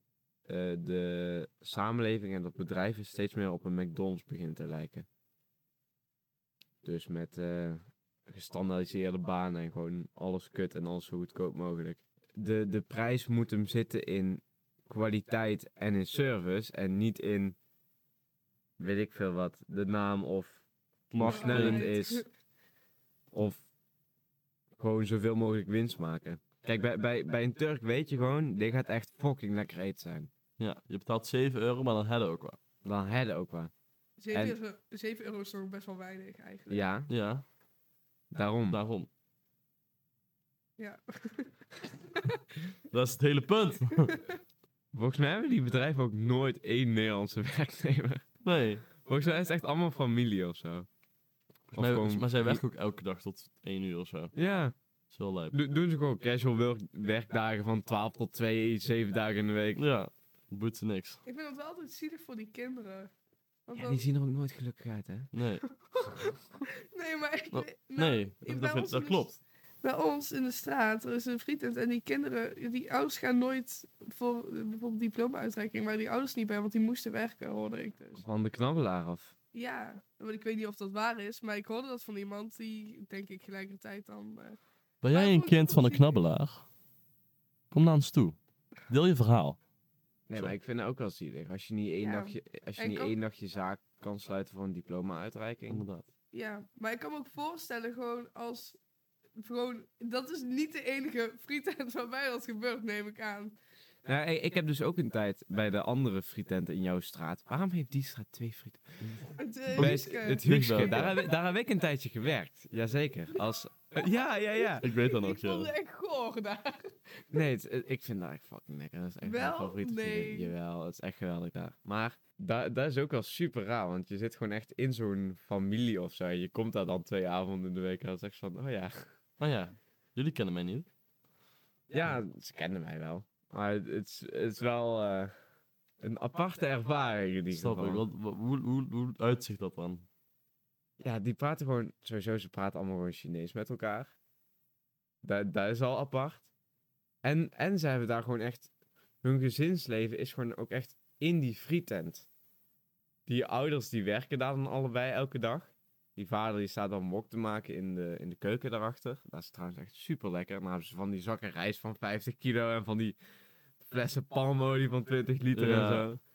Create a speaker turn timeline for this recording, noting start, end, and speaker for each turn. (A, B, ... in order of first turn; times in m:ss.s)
0:00.5-0:05.0 A
0:06.8-0:17.6 A
0:18.8-0:22.2 A
0:21.1-0:21.9 B
0:21.2-0:22.3 C
0:23.3-0:23.6 A
0:24.8-0:30.3 A
0:30.6-0:32.6 B
0:32.8-0:33.7 A
0:34.2-0:36.8 C
0:36.7-0:37.1 A
0:37.1-0:37.4 B
0:38.3-0:38.8 A
0:38.7-0:39.1 B
0:40.8-0:42.4 C
0:42.9-0:44.2 B
0:44.9-0:48.2 A
0:48.4-0:48.8 B
0:49.0-0:50.9 A
0:51.7-0:54.3 B
0:51.7-0:52.6 A
0:54.3-0:54.7 A
0:55.1-0:55.6 B
0:55.5-0:59.8 A
0:59.8-1:01.2 B
1:01.2-1:03.1 C
1:03.7-1:04.0 C
1:03.7-1:05.3 A
1:05.3-1:05.6 B
1:05.9-1:18.2 C
1:07.5-1:09.4 B
1:18.2-1:19.3 A
1:19.5-1:24.6 C
1:25.0-1:26.7 B
1:25.1-1:26.2 C
1:27.7-1:29.6 B
1:30.3-1:35.8 A
1:32.0-1:33.1 C
1:35.7-1:36.0 B
1:36.3-1:38.8 C
1:39.4-1:43.6 C
1:44.0-1:49.0 A
1:49.4-1:51.1 C
1:49.7-1:54.8 A
1:49.7-1:51.2 B
1:54.6-1:57.4 C
1:54.8-1:55.7 B
1:57.3-2:09.1 A
1:59.2-2:00.5 C
2:09.4-2:10.9 B
2:11.9-2:15.3 A
2:16.0-2:18.0 A
2:17.5-2:20.1 B
2:21.0-2:24.1 A
2:25.2-2:26.5 A
2:27.2-2:28.7 A
2:29.2-2:32.3 A
2:33.3-2:43.2 A
2:43.8-2:46.1 A
2:45.5-2:46.2 B